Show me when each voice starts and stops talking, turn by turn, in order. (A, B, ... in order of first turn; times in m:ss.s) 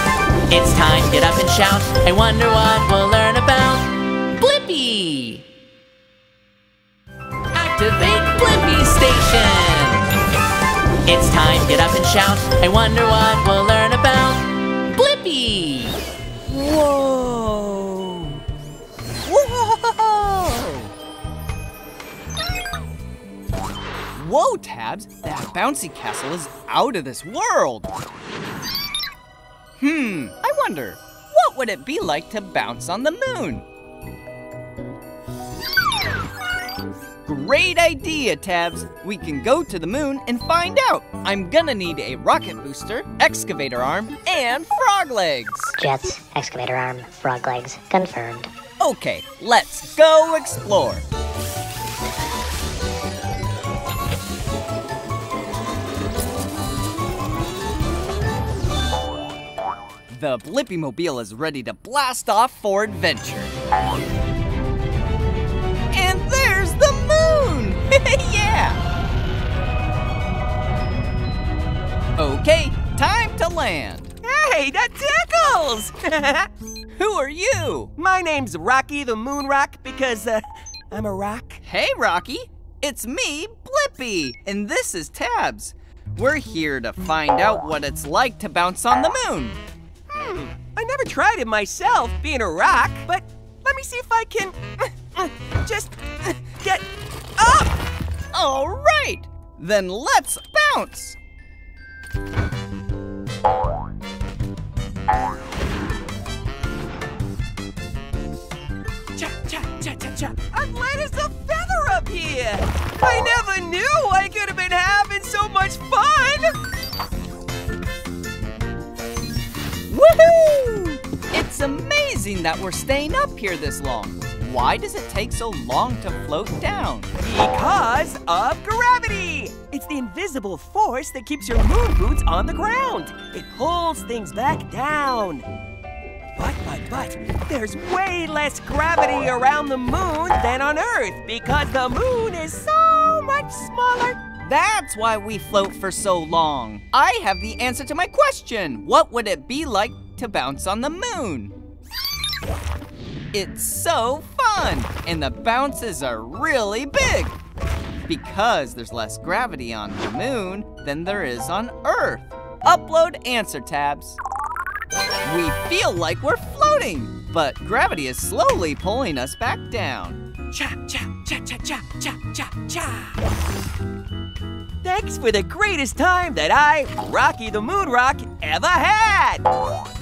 0:00.5-0:05.4 A
0:07.5-0:10.1 A
0:11.0-0:16.0 A
0:16.5-0:18.4 B
0:19.2-0:20.9 B
0:24.1-0:27.9 B
0:29.8-0:33.6 B
0:37.2-0:45.8 B
0:45.8-0:48.5 C
0:48.8-0:51.0 B
1:00.1-1:03.5 B
1:05.9-1:08.8 B
1:12.2-1:14.1 B
1:14.2-1:16.5 D
1:16.9-1:17.9 B
1:18.0-1:21.6 D
1:21.6-1:29.6 B
1:30.1-1:36.8 D
1:37.4-1:37.8 D
1:38.3-1:41.2 B
1:49.2-1:56.5 D
1:59.9-2:07.1 B
2:07.2-2:15.4 D
2:16.4-2:24.2 D
2:24.4-2:31.5 B
2:33.3-2:37.4 B
2:38.0-2:44.2 B
2:45.2-2:50.2 B
2:50.5-2:53.2 D
2:54.8-2:59.4 D